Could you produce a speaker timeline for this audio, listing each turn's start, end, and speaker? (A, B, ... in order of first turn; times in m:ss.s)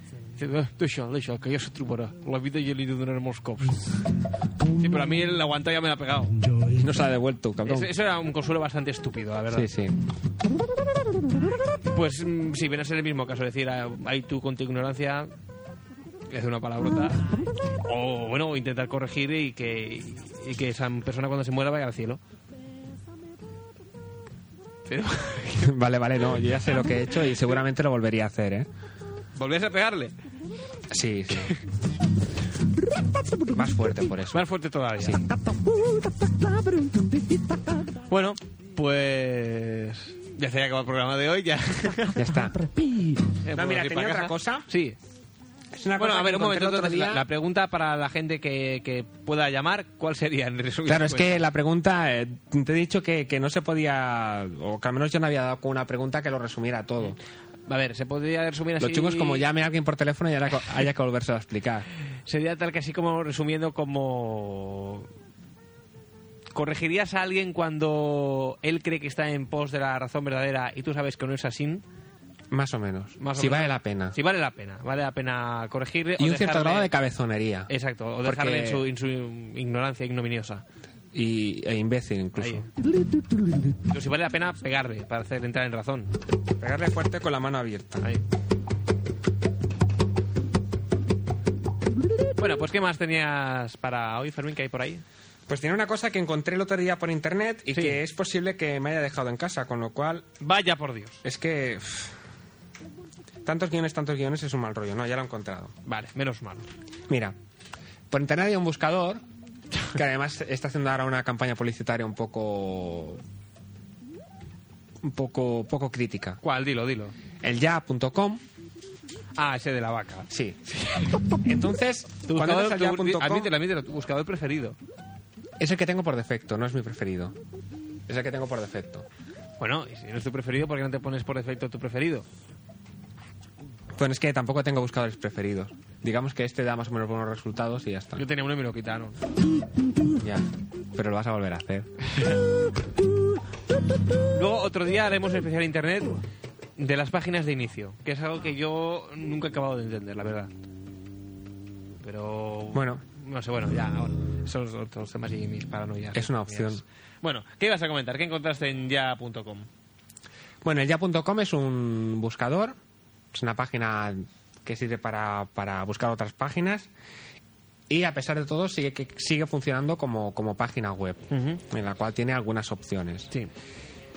0:00.4-0:03.8 A
0:04.8-0:06.3 A
0:06.8-0:07.9 B
0:07.6-0:09.7 A
0:09.5-0:10.0 B
0:11.9-0:15.3 A
0:16.3-0:17.3 A
0:17.8-0:22.2 A
0:24.9-0:25.7 A
0:25.6-0:28.7 B
0:29.4-0:30.1 A
0:30.9-0:31.5 B
0:33.5-0:34.4 B
0:34.3-0:35.3 A
0:35.0-0:35.3 B
0:38.1-0:42.3 A
0:42.2-0:42.7 B
0:43.3-0:45.0 A
0:43.5-0:44.6 B
0:45.7-0:47.3 B
0:46.0-0:51.4 A
0:50.8-0:57.2 B
0:57.7-0:59.4 A
0:58.8-1:01.9 B
1:02.3-1:05.1 A
1:06.5-1:11.8 A
1:12.5-1:14.2 B
1:13.2-1:16.9 A
1:16.2-1:17.7 B
1:17.7-1:20.6 A
1:18.2-1:18.8 B
1:21.1-1:22.7 B
1:22.4-1:22.6 A
1:23.9-1:26.1 A
1:26.6-1:28.1 B
1:32.4-1:35.0 A
1:35.5-1:40.3 B
1:37.7-1:38.0 A
1:40.4-1:41.2 A
1:41.2-1:42.1 B
1:43.4-1:45.7 B
1:45.8-1:46.7 A
1:47.1-1:47.4 B
1:48.1-1:49.2 B
1:49.9-1:53.2 B
1:55.0-1:56.4 B
1:56.4-1:57.1 A
1:57.4-1:58.4 B
1:59.4-2:01.2 A
2:00.3-2:00.6 B
2:01.4-2:03.5 B
2:02.3-2:04.8 A
2:05.6-2:07.4 B
2:08.1-2:09.0 B
2:09.6-2:12.2 A
2:14.0-2:18.2 B
2:18.2-2:19.2 A
2:20.2-2:21.9 B
2:24.3-2:26.2 A
2:26.8-2:30.5 A
2:32.0-2:39.7 A
2:32.7-2:33.0 B
2:36.1-2:36.8 B
2:40.6-2:42.8 B
2:43.3-2:46.9 B
2:47.9-2:53.3 B
2:51.3-2:51.6 A